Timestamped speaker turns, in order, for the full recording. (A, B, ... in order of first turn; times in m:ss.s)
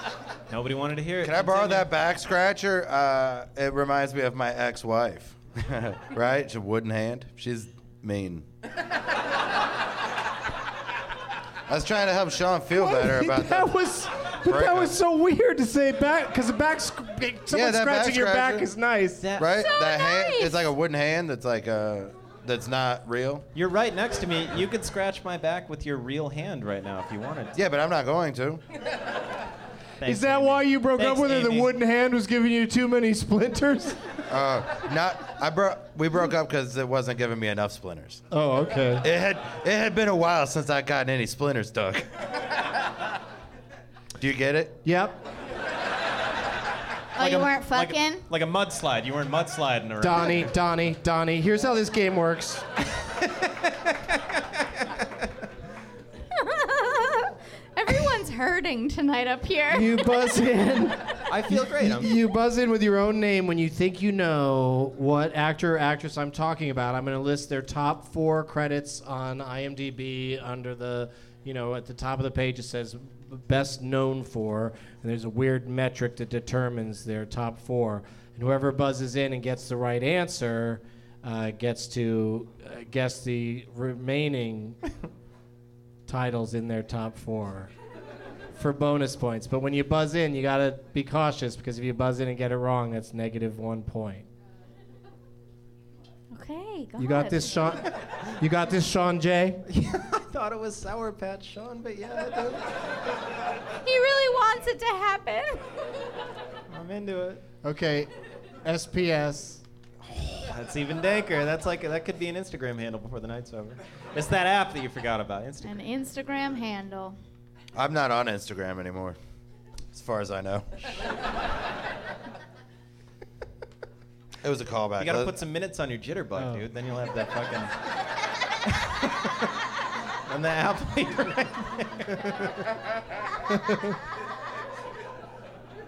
0:00.5-0:01.9 A
0:01.2-0:08.4 B
0:11.7-0:13.7 B
0:12.8-0:19.2 C
0:14.4-0:14.9 B
0:17.5-0:18.7 B
0:19.2-0:19.6 A
0:19.4-0:23.4 B
0:19.6-0:20.7 D
0:23.5-0:27.6 A
0:27.5-0:28.6 B
0:30.0-0:31.7 A
0:30.0-0:34.0 C
0:34.3-0:38.2 B
0:38.3-0:39.0 C
0:39.0-0:42.0 B
0:44.2-0:44.8 B
0:44.8-0:45.2 C
0:47.2-0:48.2 D
0:47.2-0:50.5 A
0:50.0-0:52.6 C
0:56.3-1:00.2 D
0:59.7-1:24.8 C
1:01.3-1:02.2 A
1:26.1-1:27.7 C
1:28.5-1:34.3 C
1:36.3-1:37.8 D
1:37.0-1:39.6 C
1:39.7-1:42.7 A
1:43.8-1:45.6 D
1:46.7-1:47.4 A
1:47.6-1:48.1 C
1:48.6-1:49.6 C
1:50.1-1:55.8 A
1:55.6-1:57.2 D
1:57.7-1:59.2 B
1:59.9-2:00.7 B
2:04.4-2:05.4 B
2:05.0-2:07.7 A
2:08.6-2:09.6 A
2:10.3-2:12.5 A